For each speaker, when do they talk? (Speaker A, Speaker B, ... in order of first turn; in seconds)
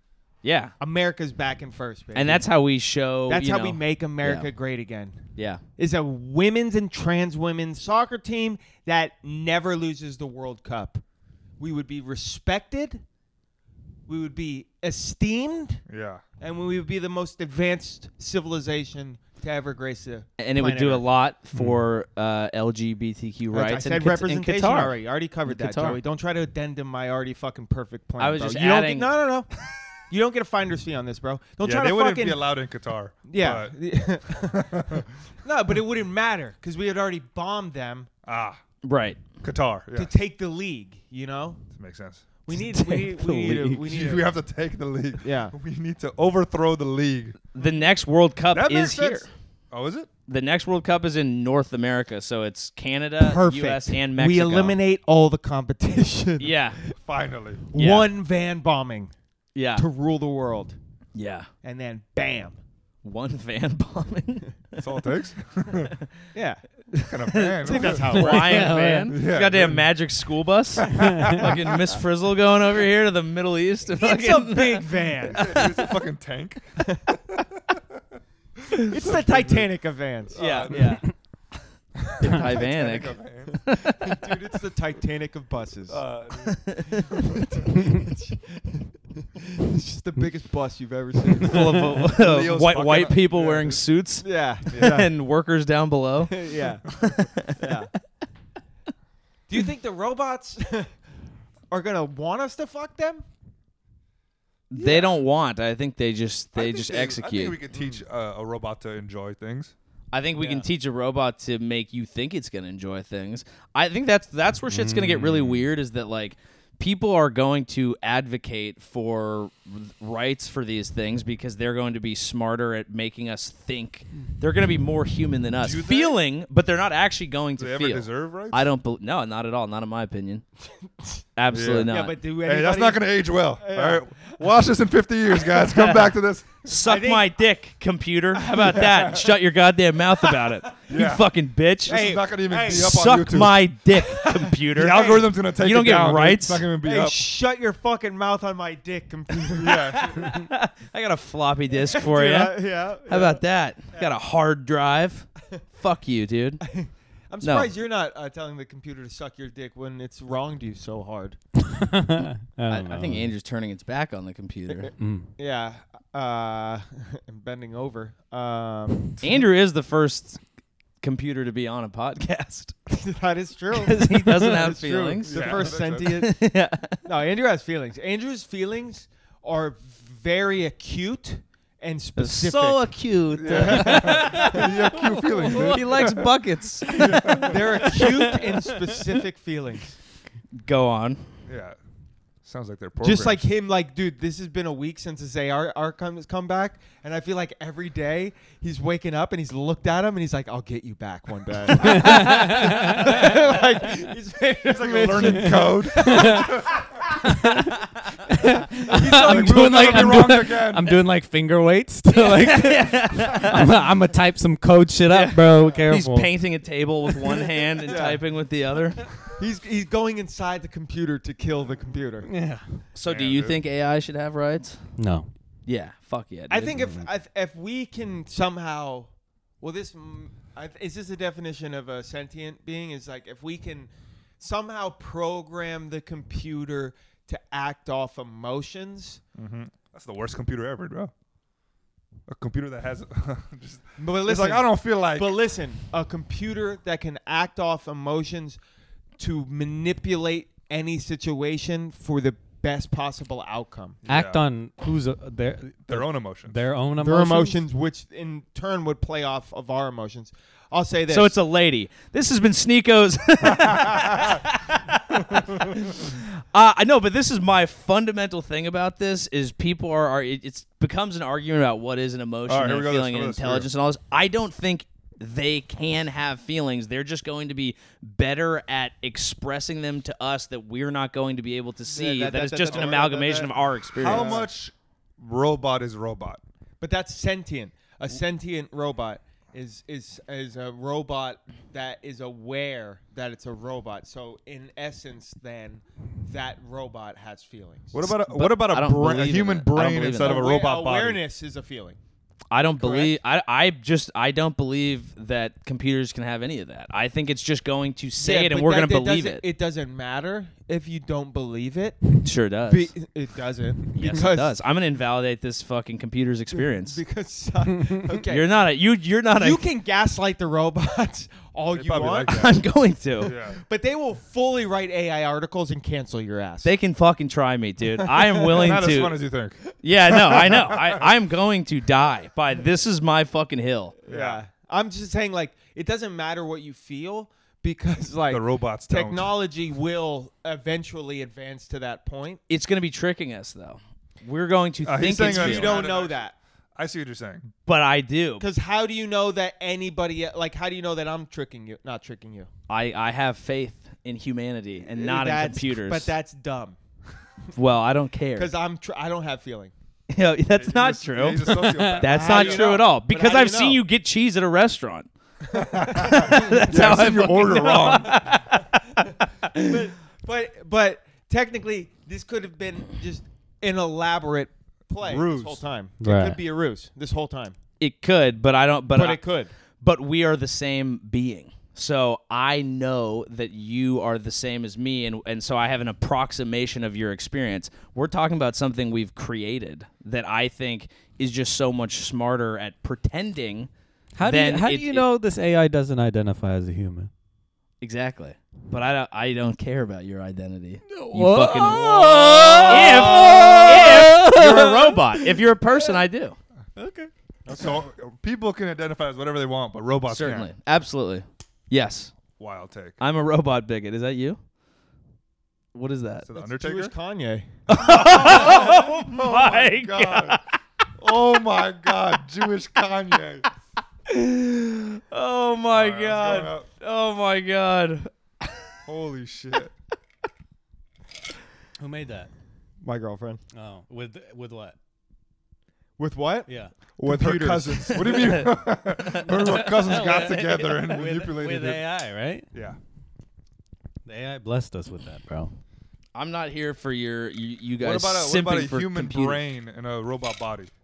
Speaker A: 0.4-0.7, 2.1-4.5, 5.4-5.6, 20.4-26.0, 28.2-29.1, 38.8-39.2, 42.5-43.9, 47.5-49.3, 50.3-54.8, 56.4-56.8, 57.8-58.1, 59.5-59.9, 61.1-61.5, 63.0-64.9, 67.2-75.7, 80.4-81.2, 82.2-84.0, 86.5-87.2, 91.4-97.8, 104.7-107.6, 110.1-130.4, 131.4-132.2, 135.5-142.1, 142.7-146.7, 150.0-156.6, 157.4-157.7, 162.7-164.9, 169.2-170.4, 171.0-172.8, 173.7-177.0, 182.2-184.8, 185.5-187.3, 187.9-188.2, 190.6-191.3, 202.0-202.6, 212.1-213.8, 215.1-219.2, 222.9-224.9, 225.7-227.0, 261.1-284.5, 298.1-300.5, 302.5-309.4, 312.2-312.9, 313.9-317.0, 318.3-319.6, 322.3-323.3, 326.6-329.2, 329.8-333.9, 342.5-345.9, 347.7-348.5, 352.7-356.1, 357.6-358.5, 360.1-365.1, 365.9-369.8, 377.8-379.3, 379.8-393.7, 394.2-395.1, 397.8-402.0, 402.7-406.4, 410.1-412.2, 413.0-414.4, 415.7-416.3, 417.7-420.6, 424.1-428.6, 438.1-440.8, 446.1-449.4
Speaker B: 0.8-2.5, 3.3-5.2, 5.8-11.0, 11.6-13.0, 14.1-15.8, 16.4-21.1, 23.5-29.5, 30.1-32.4, 33.3-38.1, 39.9-41.6, 42.5-44.3, 45.2-45.5, 47.6-47.9, 53.2-57.0, 57.7-59.1, 59.8-60.8, 61.6-62.6, 66.3-66.6, 67.6-68.9, 74.0-75.7, 76.8-77.2, 78.8-81.0, 83.7-86.0, 87.2-91.9, 94.2-95.1, 96.3-96.9, 97.6-97.9, 99.5-100.9, 101.7-103.2, 110.4-110.7, 131.9-134.2, 136.7-137.3, 138.4-138.8, 140.2-140.5, 141.9-143.0, 144.1-145.3, 146.8-150.3, 151.7-154.1, 156.6-161.4, 164.8-169.2, 172.9-176.4, 177.1-182.9, 183.4-184.6, 187.4-189.9, 193.0-206.8, 208.7-210.3, 217.8-218.2, 219.3-222.3, 226.5-239.2, 244.0-248.6, 249.2-254.0, 257.0-261.4, 281.9-284.5, 286.8-298.0, 300.2-302.0, 302.8-303.2, 308.2-312.1, 312.6-314.5, 316.5-318.5, 319.4-322.5, 323.5-326.7, 328.0-328.7, 334.1-342.4, 345.2-346.4, 348.4-352.5, 355.0-356.8, 358.4-359.7, 362.1-363.8, 369.5-377.6, 378.9-379.5, 416.4-417.6, 432.8-433.4, 436.0-438.3
Speaker C: 15.9-16.2, 31.6-33.8, 34.3-35.1, 38.2-38.6, 39.4-40.1, 41.7-42.2, 43.8-47.4, 48.5-50.1, 57.0-57.6, 64.8-66.0, 67.1-68.1, 69.1-69.9, 71.0-71.6, 75.3-78.2, 78.9-79.7, 80.3-81.0, 82.2-83.6, 85.9-86.8, 92.1-93.8, 94.7-95.0, 104.8-105.2, 106.5-109.7, 125.6-126.2, 127.6-128.7, 131.5-131.9, 132.4-136.6, 138.8-139.3, 140.9-141.3, 141.9-143.6, 144.7-147.2, 149.6-150.4, 175.3-176.2, 183.3-186.2, 186.9-187.9, 191.5-191.8, 192.4-193.4, 204.7-206.9, 209.2-211.0, 223.1-223.6, 239.4-241.1, 242.3-245.4, 254.1-254.5, 255.9-256.6, 263.5-264.4, 265.3-265.8, 272.5-273.7, 282.7-282.9, 284.0-286.4, 297.9-301.2, 321.7-322.6, 323.2-323.6, 328.5-329.6, 330.3-331.1, 334.1-334.4, 338.3-339.3, 344.9-346.2, 346.8-347.5, 360.6-362.7, 365.5-368.3, 375.0-375.6, 402.5-403.9, 407.5-410.5, 412.3-413.0, 416.2-416.9, 417.7-420.4, 421.0-423.4, 425.7-426.7, 428.9-429.7, 437.0-441.8, 442.5-442.8, 447.8-450.7
Speaker D: 68.1-69.1, 71.0-71.3, 91.4-92.0, 114.7-115.7, 161.7-163.3, 165.0-165.3, 185.3-185.8, 201.8-203.2, 205.3-206.5, 207.2-216.3, 217.3-217.5, 222.3-222.8, 225.0-225.3, 254.1-257.6, 361.4-362.1, 376.0-376.4, 394.2-397.1, 400.9-405.9, 406.8-407.1, 431.8-432.3, 433.5-434.8, 436.5-436.7, 439.4-442.5, 444.1-445.5